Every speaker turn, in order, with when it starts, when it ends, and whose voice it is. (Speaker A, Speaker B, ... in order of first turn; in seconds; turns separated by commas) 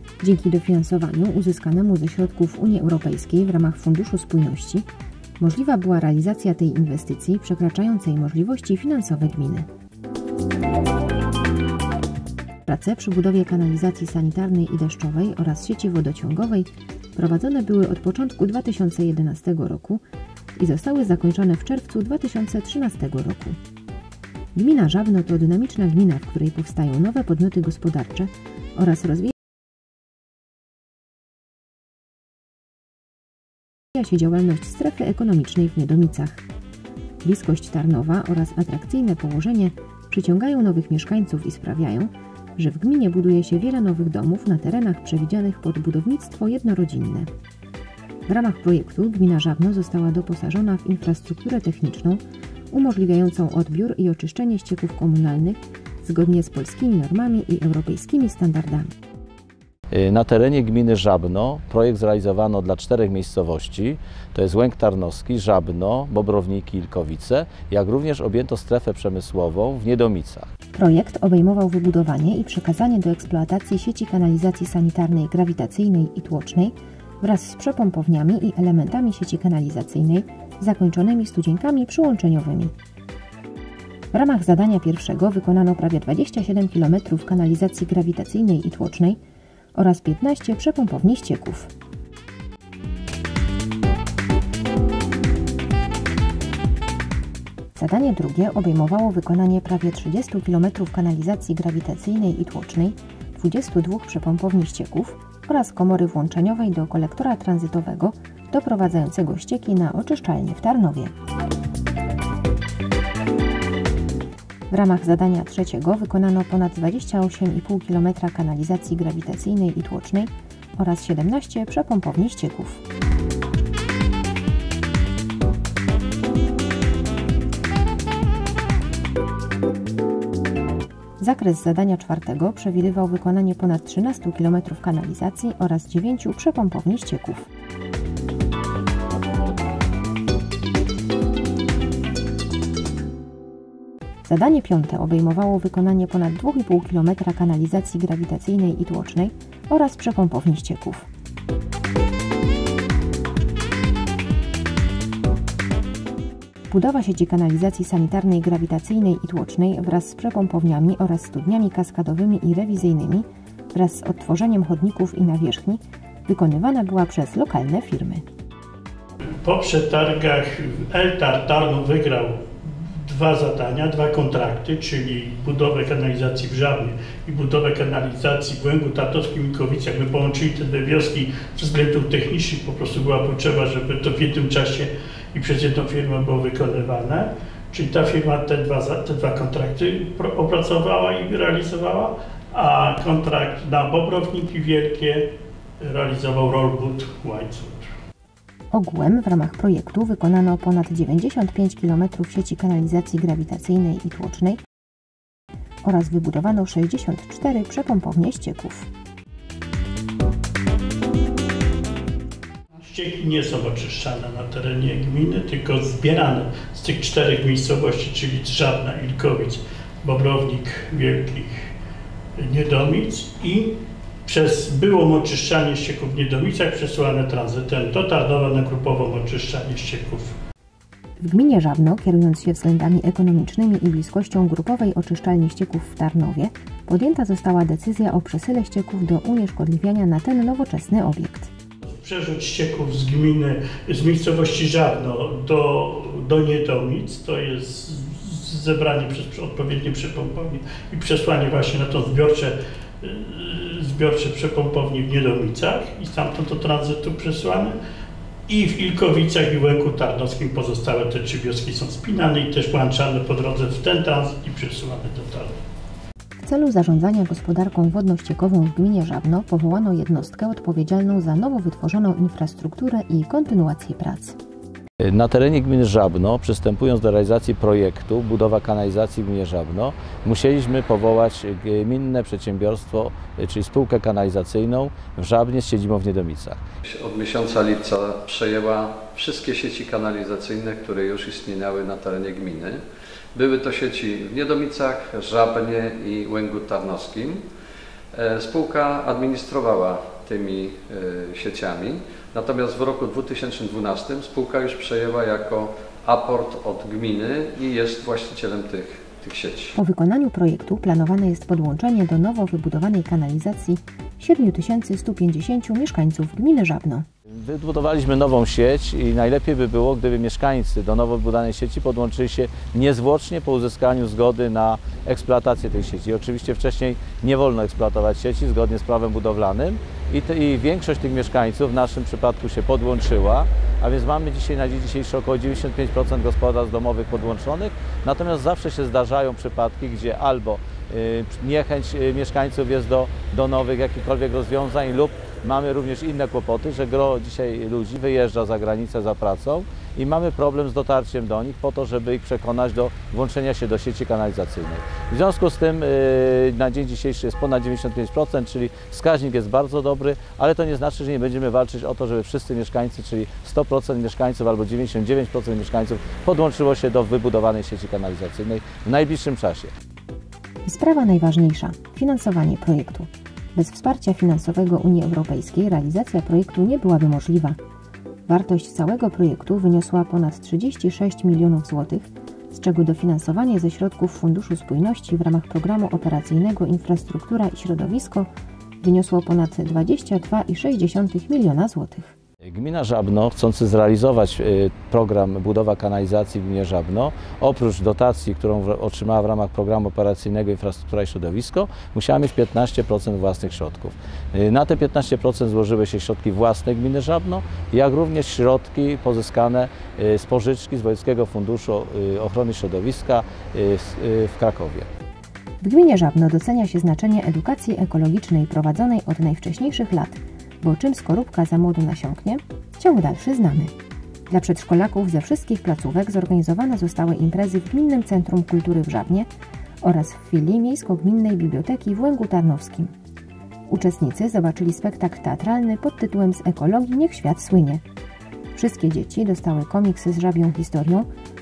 Speaker A: 0.2-4.9, Speaker A: 5.4-9.7, Speaker A: 12.7-20.0, Speaker A: 20.6-23.6, Speaker A: 24.5-29.3, Speaker A: 33.9-36.4, Speaker A: 37.2-47.3, Speaker A: 48.3-58.9, Speaker B: 59.9-70.5, Speaker A: 70.7-82.7, Speaker A: 84.1-89.2, Speaker A: 89.7-91.7, Speaker A: 97.7-111.1, Speaker A: 114.7-122.8, Speaker A: 131.2-137.5, Speaker A: 144.2-151.1, Speaker A: 156.7-168.2, Speaker C: 169.4-195.2, Speaker C: 195.8-197.9, Speaker A: 198.7-204.6, Speaker A: 205.8-208.9, Speaker C: 212.8-221.7, Speaker C: 222.4-223.7, Speaker C: 224.2-230.3, Speaker A: 231.2-241.5, Speaker C: 241.9-257.8, Speaker C: 258.5-265.6, Speaker A: 266.4-274.4, Speaker B: 275.0-286.6, Speaker D: 286.8-292.8, Speaker D: 293.3-297.4, Speaker D: 298.1-309.7, Speaker A: 309.7-317.1, Speaker B: 317.4-369.7, Speaker A: 370.6-377.6, Speaker A: 378.3-388.3, Speaker A: 388.8-392.1, Speaker B: 392.4-414.9, Speaker A: 415.6-423.7, Speaker A: 424.3-429.3, Speaker A: 429.8-432.9, Speaker A: 433.7-437.8, Speaker A: 438.5-441.1